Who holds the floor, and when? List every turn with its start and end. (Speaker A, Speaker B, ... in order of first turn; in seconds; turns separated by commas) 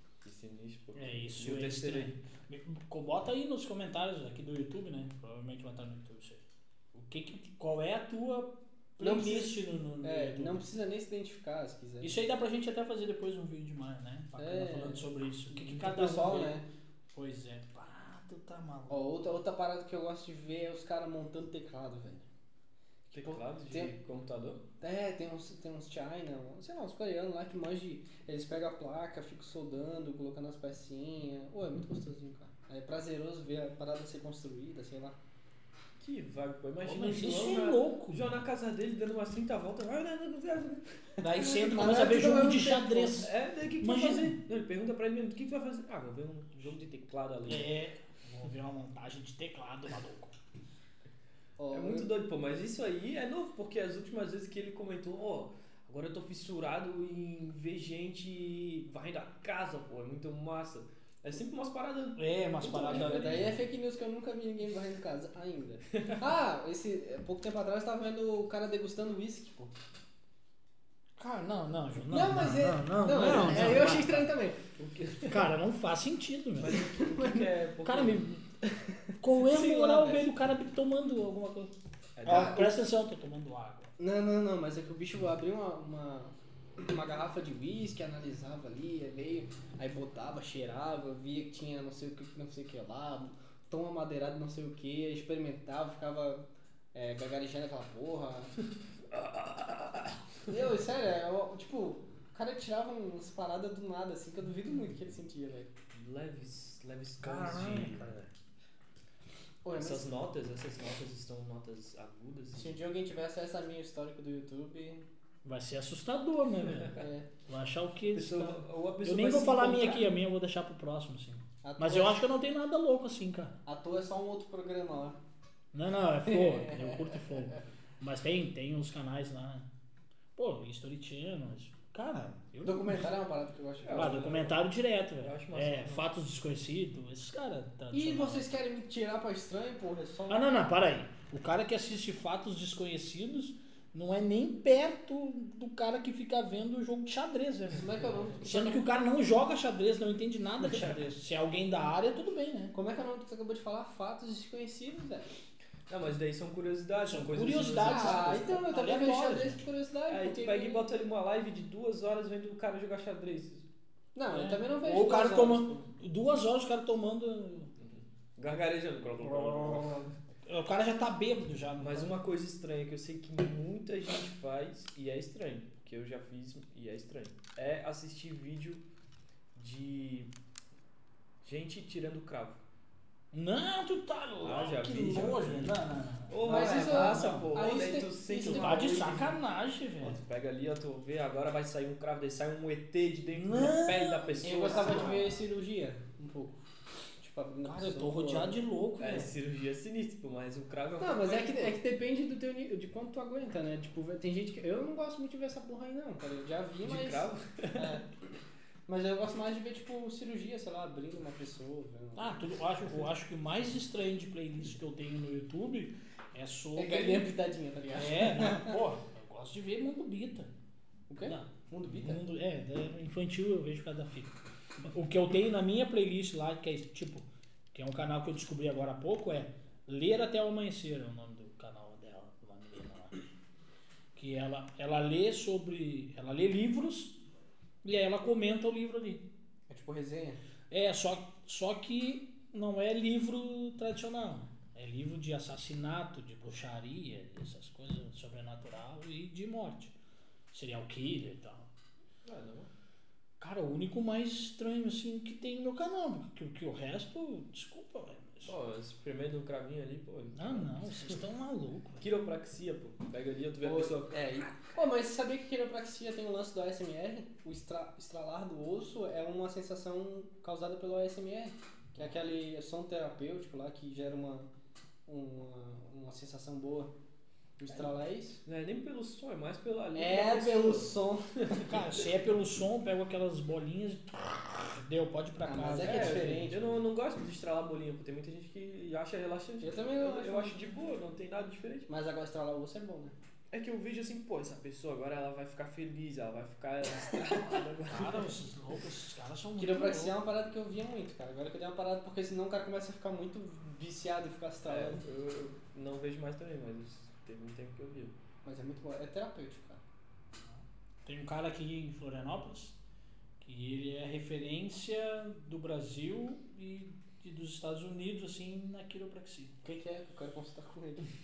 Speaker A: 0.2-2.1, Speaker B: 0.9-6.4, Speaker B: 6.9-10.6, Speaker C: 9.0-12.1, Speaker B: 12.0-16.6, Speaker C: 14.3-16.6, Speaker B: 17.1-19.0, Speaker C: 18.9-22.3, Speaker A: 23.1-24.6, Speaker C: 23.2-23.9, Speaker C: 24.8-35.2, Speaker A: 36.0-41.0, Speaker B: 36.8-38.4, Speaker B: 41.2-44.4, Speaker C: 41.3-43.2, Speaker A: 43.2-47.7, Speaker B: 47.5-50.3, Speaker C: 51.6-52.1, Speaker A: 51.7-63.6, Speaker B: 62.1-63.5, Speaker C: 62.7-69.7, Speaker A: 65.9-66.2, Speaker B: 71.2-74.3, Speaker C: 72.1-74.7, Speaker A: 73.3-73.9, Speaker A: 74.8-75.5, Speaker B: 75.3-76.8, Speaker A: 76.6-78.2, Speaker C: 76.8-77.5, Speaker B: 77.8-78.4, Speaker C: 78.6-80.4, Speaker B: 79.2-81.7, Speaker A: 82.2-82.7, Speaker B: 82.2-83.9, Speaker C: 82.2-82.7, Speaker C: 84.0-98.5, Speaker A: 99.1-100.2, Speaker C: 100.5-105.7, Speaker A: 105.9-108.1, Speaker B: 107.2-108.3, Speaker C: 109.6-110.2, Speaker A: 109.7-112.8, Speaker C: 112.5-115.0, Speaker B: 115.4-123.5, Speaker C: 116.9-117.3, Speaker A: 118.1-120.1, Speaker C: 121.6-122.2, Speaker C: 123.6-125.2, Speaker B: 125.7-129.7, Speaker C: 126.2-127.4, Speaker B: 130.3-133.1, Speaker C: 132.6-134.3, Speaker A: 133.8-134.6, Speaker B: 133.9-138.4, Speaker A: 135.2-136.1, Speaker C: 137.9-140.6, Speaker B: 140.3-147.9, Speaker C: 147.7-148.9, Speaker A: 147.8-148.2, Speaker B: 148.4-152.7, Speaker A: 150.7-151.0, Speaker C: 152.7-155.3, Speaker A: 155.9-158.5, Speaker B: 157.0-159.6, Speaker C: 157.8-160.9, Speaker A: 160.1-163.7, Speaker C: 164.1-165.9, Speaker B: 164.3-167.7, Speaker A: 167.8-170.1, Speaker B: 169.2-172.2, Speaker A: 171.8-178.8, Speaker A: 179.5-180.3, Speaker A: 181.4-182.6, Speaker B: 183.3-187.5, Speaker A: 184.4-185.8, Speaker A: 186.3-189.3, Speaker C: 186.4-189.2, Speaker B: 188.3-190.2, Speaker A: 190.0-195.3, Speaker B: 193.3-195.2, Speaker C: 194.4-196.6, Speaker C: 197.2-198.6, Speaker B: 197.6-199.3, Speaker A: 199.0-201.8, Speaker C: 201.0-208.1, Speaker A: 206.8-208.0, Speaker C: 208.9-212.4, Speaker B: 212.2-217.3, Speaker C: 216.8-218.8, Speaker B: 217.9-220.5, Speaker C: 221.1-222.2, Speaker B: 221.2-233.2, Speaker B: 234.1-237.2, Speaker B: 237.8-239.2, Speaker C: 239.7-240.4, Speaker B: 240.7-249.9, Speaker B: 250.5-251.7, Speaker A: 252.2-252.7, Speaker B: 253.4-258.5, Speaker A: 258.4-261.2, Speaker B: 260.3-262.1, Speaker A: 262.0-264.1, Speaker C: 263.6-274.5, Speaker C: 275.1-276.9, Speaker C: 277.6-278.4, Speaker A: 278.4-281.8, Speaker C: 279.9-281.8, Speaker B: 281.6-286.5, Speaker C: 285.4-286.7, Speaker A: 285.7-291.9, Speaker C: 289.6-290.6, Speaker C: 291.9-293.1, Speaker A: 293.5-298.3, Speaker B: 297.5-300.1, Speaker C: 299.6-305.0, Speaker A: 304.7-308.1, Speaker C: 308.4-309.8, Speaker B: 310.5-312.8, Speaker B: 313.4-319.6, Speaker C: 319.6-321.1